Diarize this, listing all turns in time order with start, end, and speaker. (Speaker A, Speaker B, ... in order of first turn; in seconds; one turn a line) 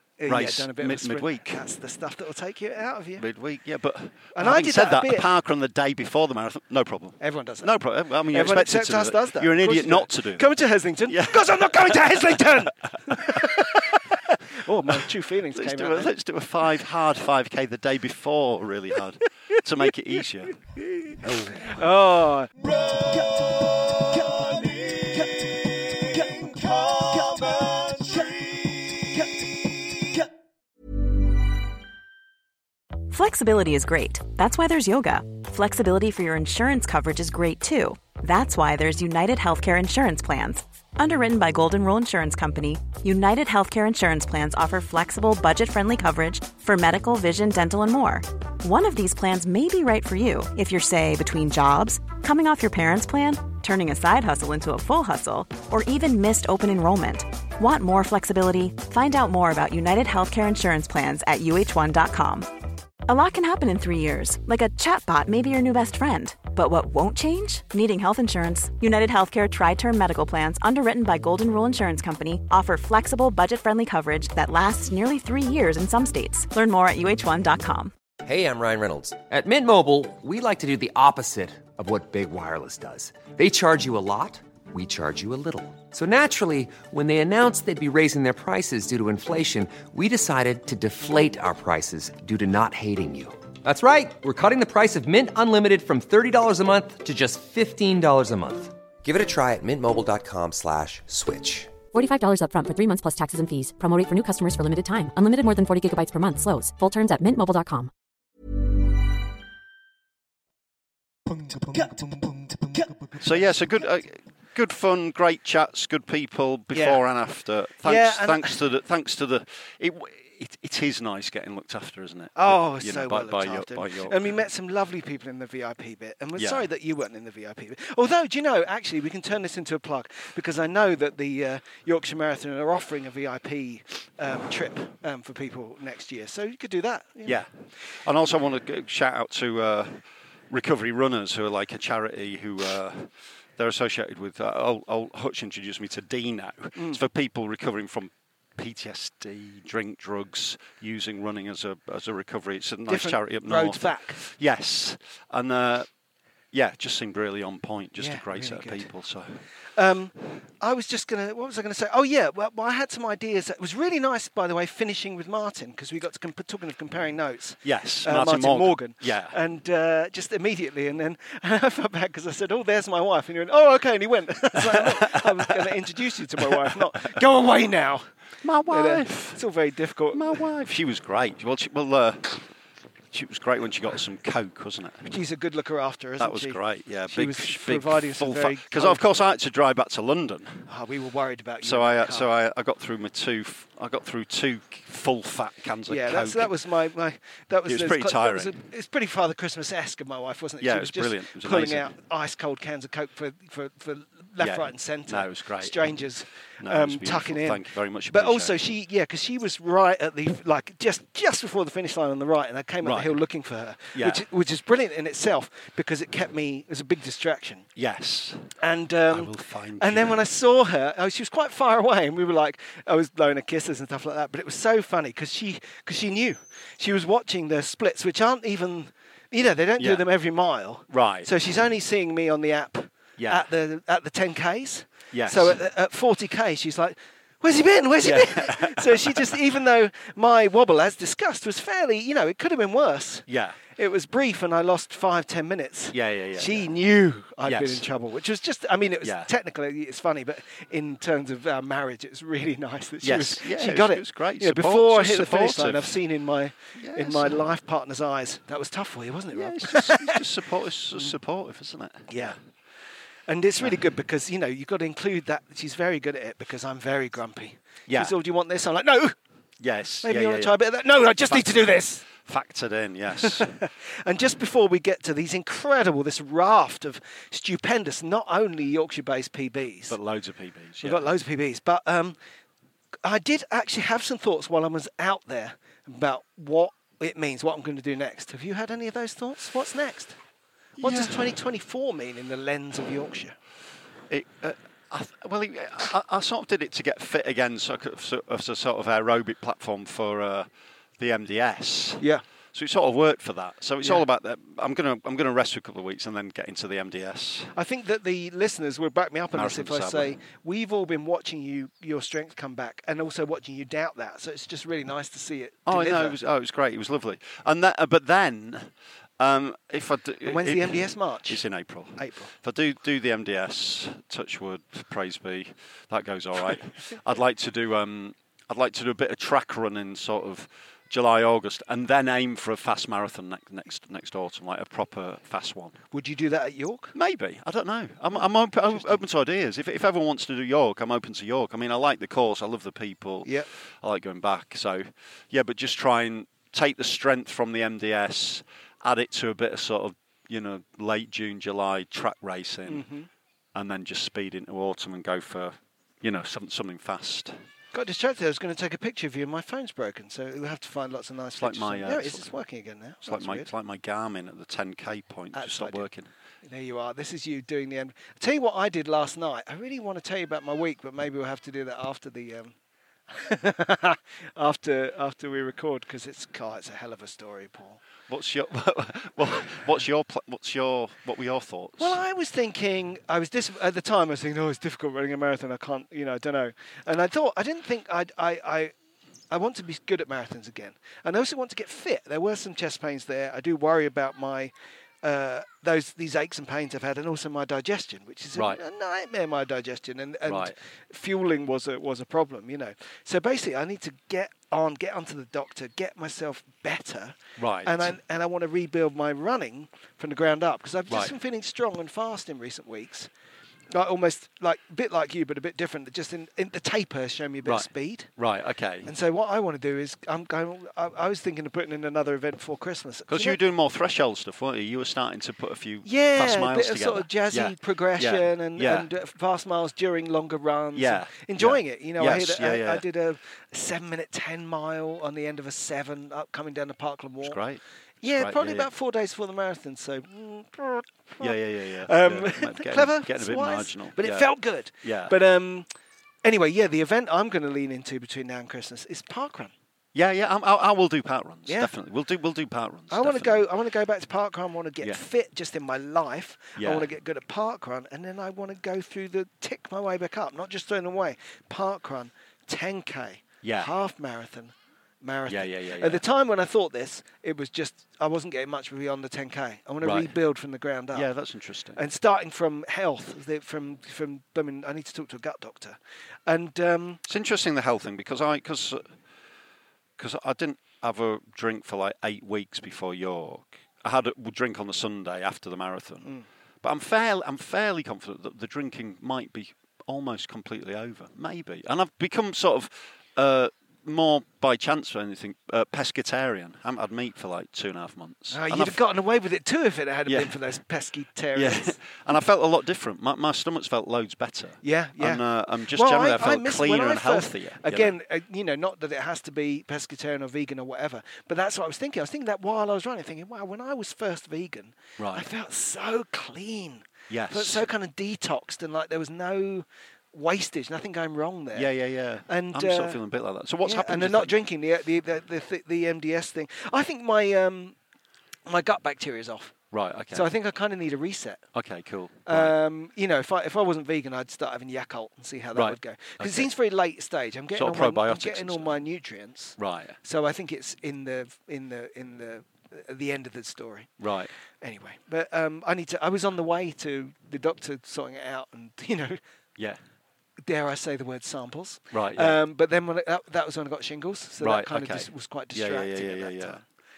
Speaker A: 0.2-3.3
Speaker B: 0.3-1.6
Speaker B: 3.2-10.5
Speaker A: 4.3-5.3
Speaker A: 7.2-7.7
Speaker A: 8.3-16.1
Speaker B: 11.1-14.0
Speaker B: 15.5-20.6
Speaker A: 20.8-30.3
Speaker B: 21.2-21.6
Speaker C: 33.1-62.5
Speaker C: 63.1-77.9
Speaker D: 78.2-101.8
Speaker E: 101.9-107.9
Speaker A: 111.6-112.2
Speaker A: 112.8-113.2
Speaker B: 113.2-124.3
Speaker A: 116.7-117.0
Speaker A: 117.8-118.6
Speaker A: 122.4-137.4
Speaker B: 126.4-126.7
Speaker B: 138.0-155.9
Speaker A: 152.9-154.2
Speaker B: 156.5-159.4
Speaker A: 158.0-158.9
Speaker A: 159.8-178.1
Speaker B: 167.6-169.4
Speaker B: 174.5-175.7
Speaker B: 176.4-177.2
Speaker B: 178.4-179.4
Speaker A: 178.7-180.4
Speaker B: 180.1-182.4
Speaker B: 183.1-185.1
Speaker A: 185.1-189.2
Speaker B: 186.2-190.7
Speaker A: 190.7-192.3
Speaker B: 191.6-196.5
Speaker A: 195.9-217.7
Speaker B: 197.7-198.6
Speaker B: 200.6-201.9
Speaker B: 204.4-206.0
Speaker B: 206.6-208.6
Speaker B: 212.8-213.2
Speaker B: 213.9-214.2
Speaker B: 217.8-218.5
Speaker A: 218.6-260.2
Speaker B: 219.1-220.2
Speaker B: 229.8-230.1
Speaker B: 230.9-231.3
Speaker B: 233.2-233.5
Speaker B: 235.1-235.6
Speaker B: 238.0-239.4
Speaker B: 243.3-243.6
Speaker B: 245.9-246.7
Speaker B: 247.4-247.8
Speaker B: 249.0-249.3
Speaker B: 253.0-256.0
Speaker B: 256.8-257.4
Speaker B: 259.3-262.4
Speaker A: 262.1-262.4
Speaker A: 263.3-269.1
Speaker B: 267.9-268.1
Speaker B: 269.6-270.6
Speaker A: 270.0-272.1
Speaker B: 271.2-273.5
Speaker A: 273.1-280.0
Speaker B: 279.9-281.1
Speaker A: 280.8-282.2
Speaker A: 283.0-290.2
Speaker B: 290.8-291.2
Speaker A: 290.8-293.4
Speaker B: 294.1-300.5
Speaker B: 301.0-302.0
Speaker B: 302.5-307.5
Speaker A: 307.5-316.2
Speaker B: 309.3-310.1
Speaker B: 315.7-335.8
Speaker A: 320.2-321.4
Speaker A: 322.0-322.3
Speaker A: 335.9-336.9
Speaker B: 336.9-352.9
Speaker A: 338.1-339.0
Speaker A: 352.7-353.1
Speaker B: 353.6-357.4
Speaker A: 357.7-363.5
Speaker B: 361.4-362.3
Speaker B: 363.1-366.1
Speaker A: 365.3-365.9
Speaker A: 366.4-372.6
Speaker A: 373.1-377.8
Speaker B: 378.1-382.0
Speaker A: 381.8-388.7
Speaker A: 389.3-413.1
Speaker B: 398.3-398.6
Speaker B: 400.3-400.6
Speaker B: 407.4-408.0
Speaker B: 410.9-411.1
Speaker A: 413.7-418.1
Speaker B: 417.4-418.9
Speaker A: 418.9-423.4
Speaker B: 423.1-428.9
Speaker A: 425.9-437.4
Speaker B: 430.8-432.8
Speaker B: 437.2-438.7
Speaker A: 438.0-445.7
Speaker B: 441.2-445.1
Speaker A: 446.2-449.5
Speaker B: 449.9-453.5
Speaker A: 452.9-471.1
Speaker B: 456.6-456.9
Speaker B: 463.4-463.7
Speaker B: 465.3-466.0
Speaker B: 469.8-470.1
Speaker B: 470.9-471.8
Speaker A: 471.8-477.0
Speaker B: 477.1-478.9
Speaker B: 480.0-486.1
Speaker B: 486.6-498.8
Speaker A: 498.3-501.8
Speaker B: 500.1-500.4
Speaker B: 501.3-508.0
Speaker A: 504.6-521.7
Speaker B: 515.0-515.3
Speaker B: 517.1-517.7
Speaker B: 521.5-524.4
Speaker A: 522.3-523.0
Speaker A: 523.6-527.8
Speaker A: 528.5-529.5
Speaker B: 529.7-530.3
Speaker A: 530.1-531.4
Speaker B: 531.5-532.5
Speaker A: 532.3-543.9
Speaker B: 535.5-536.5
Speaker B: 537.5-538.8
Speaker B: 539.6-540.0
Speaker B: 544.0-544.3
Speaker A: 544.6-549.2
Speaker A: 550.4-556.6
Speaker B: 551.9-552.4
Speaker B: 554.4-556.6